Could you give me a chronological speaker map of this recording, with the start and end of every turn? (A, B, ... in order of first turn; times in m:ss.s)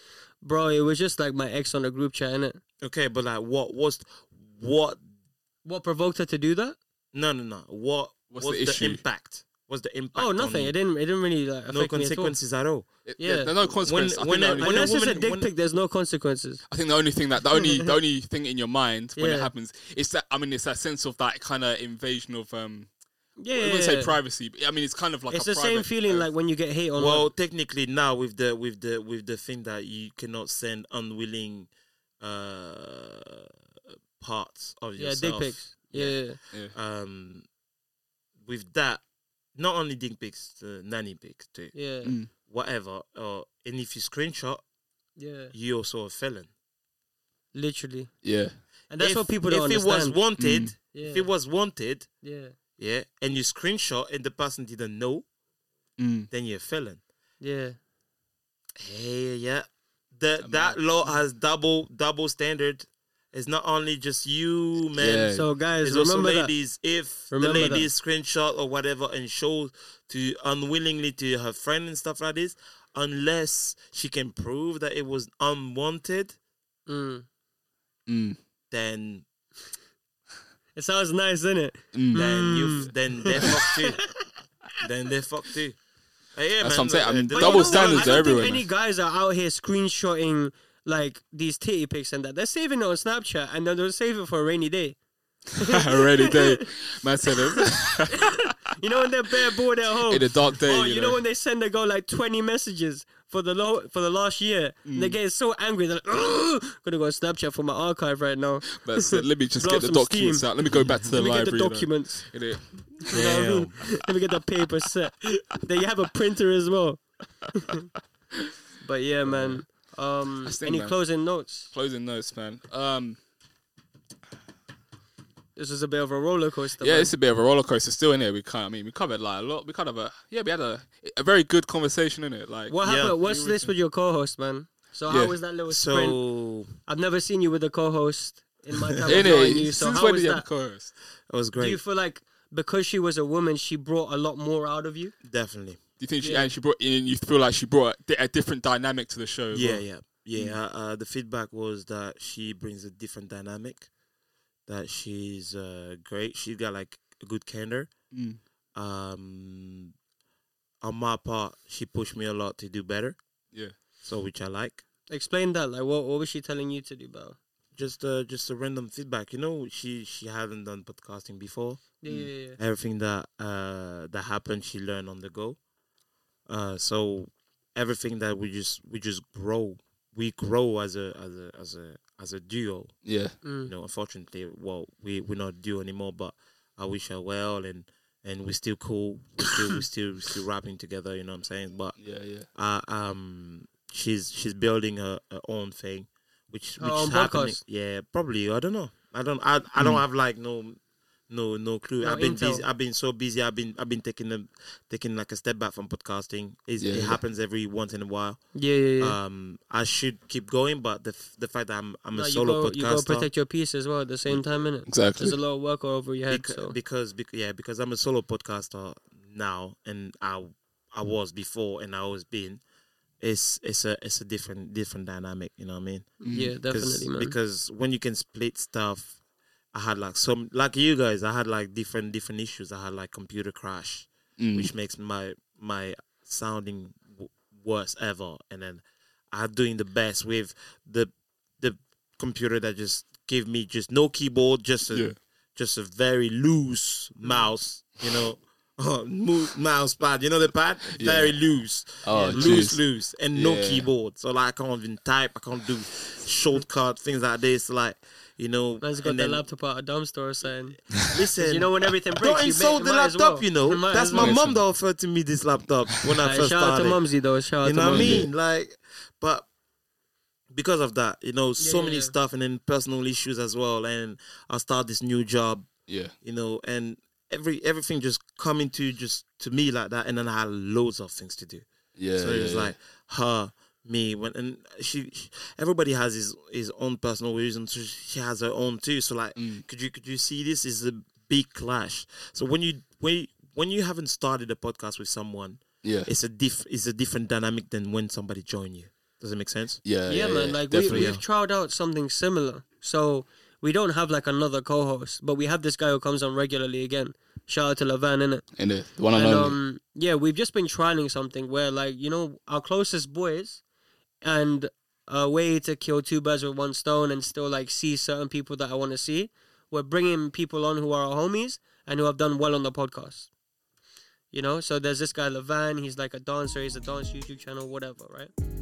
0:00.4-0:02.6 A
0:02.8-0:05.0 B
0:05.6-0:06.8 A
0:07.1-0:10.7 B
0:08.3-0:09.0 C
0:10.1-0:12.4 A
0:11.7-0:12.9 B
0:13.0-0:15.1 C
0:13.2-0:13.5 A
0:13.7-0:15.5 B
0:14.6-0:16.6 A
0:16.7-0:22.9 C
0:17.6-0:17.9 A
0:19.2-0:19.5 A
0:23.4-0:24.2 A
0:23.5-0:26.3 C
0:25.3-0:27.3 A
0:27.0-0:31.7 B
0:32.2-0:33.6 B
0:34.2-0:36.2 B
0:35.0-0:36.4 A
0:36.7-0:37.5 B
0:38.4-0:39.0 B
0:39.5-0:41.7 B
0:41.7-0:42.1 A
0:42.0-0:42.3 C
0:42.3-0:44.6 B
0:45.2-0:45.5 A
0:45.5-0:46.5 B
0:47.5-0:48.1 A
0:48.2-0:48.6 C
0:48.9-0:50.2 A
0:49.0-0:52.1 B
0:50.4-0:50.7 C
0:50.9-0:51.3 A
0:52.2-0:52.5 A
0:52.8-0:55.2 B
0:56.0-0:56.3 C
0:56.3-0:57.0 B
0:57.4-0:57.8 A
0:58.8-1:16.4 B
1:00.4-1:00.8 C
1:05.0-1:05.4 C
1:05.3-1:06.5 A
1:07.3-1:07.9 A
1:16.9-1:17.2 A
1:18.1-1:18.4 C
1:18.7-1:19.2 B
1:20.7-1:24.3 A
1:21.9-1:22.2 C
1:22.1-1:24.0 B
1:24.8-1:25.8 B
1:26.3-1:28.6 B
1:26.6-1:28.6 C
1:27.3-1:35.0 A
1:35.6-1:36.6 A
1:35.6-1:38.4 C
1:38.1-1:50.5 A
1:40.1-1:41.2 C
1:44.8-1:45.2 C
1:48.8-1:53.2 C
1:51.0-1:52.2 A
1:53.1-1:57.9 A
1:53.1-1:53.8 B
1:58.8-2:01.7 A
1:59.2-1:59.6 C
2:00.4-2:01.0 C
2:01.7-2:03.2 C
2:05.6-2:07.1 A
2:06.8-2:13.7 C
2:12.7-2:16.2 A
2:12.8-2:13.2 B
2:15.1-2:15.4 C
2:15.7-2:16.7 B
2:16.8-2:20.4 A
2:18.9-2:19.5 B
2:19.0-2:20.9 C
2:21.3-2:21.8 B
2:21.6-2:25.1 A
2:25.2-2:25.8 B
2:26.0-2:30.6 C
2:26.2-2:26.5 A
2:29.5-2:33.9 B
2:34.7-2:37.9 B
2:38.1-2:38.4 C
2:38.7-2:39.9 B
2:40.8-2:43.2 B
2:44.0-2:44.8 B
2:45.1-2:47.4 A
2:47.8-2:55.6 B
2:52.0-2:52.6 A
2:56.5-3:02.9 B
3:03.0-3:03.3 C
3:03.4-3:03.7 A
3:03.6-3:12.0 B
3:12.0-3:12.5 C
3:12.5-3:28.4 B
3:16.8-3:17.6 A
3:19.8-3:20.0 C
3:22.0-3:22.6 A
3:26.8-3:27.2 C
3:28.5-3:29.2 A
3:29.0-3:33.3 B
3:32.1-3:36.8 A
3:34.8-3:35.4 C
3:36.3-3:42.6 B
3:43.2-3:49.2 B
3:46.2-3:47.3 A
3:46.2-3:46.5 C
3:49.7-4:19.4 B
3:54.4-3:54.7 C
4:04.9-4:05.2 C
4:10.9-4:11.4 C
4:12.0-4:13.9 C
4:12.1-4:12.6 A
4:18.8-4:20.8 A
4:21.0-4:27.0 B
4:21.4-4:24.4 A
4:24.2-4:24.6 C
4:25.9-4:26.2 C
4:26.2-4:28.2 A
4:27.6-4:29.5 B
4:27.9-4:28.3 C
4:30.5-4:35.7 B
4:31.6-4:32.1 A
4:35.9-4:36.1 C
4:36.2-4:59.8 B
4:42.0-4:42.7 C
4:49.4-4:49.6 C
4:55.8-4:56.1 C
4:59.8-5:01.1 C
5:00.1-5:08.4 A
5:00.7-5:01.2 B
5:08.6-5:09.6 C
5:09.1-5:13.6 A
5:14.2-5:23.3 A
5:24.3-5:28.3 A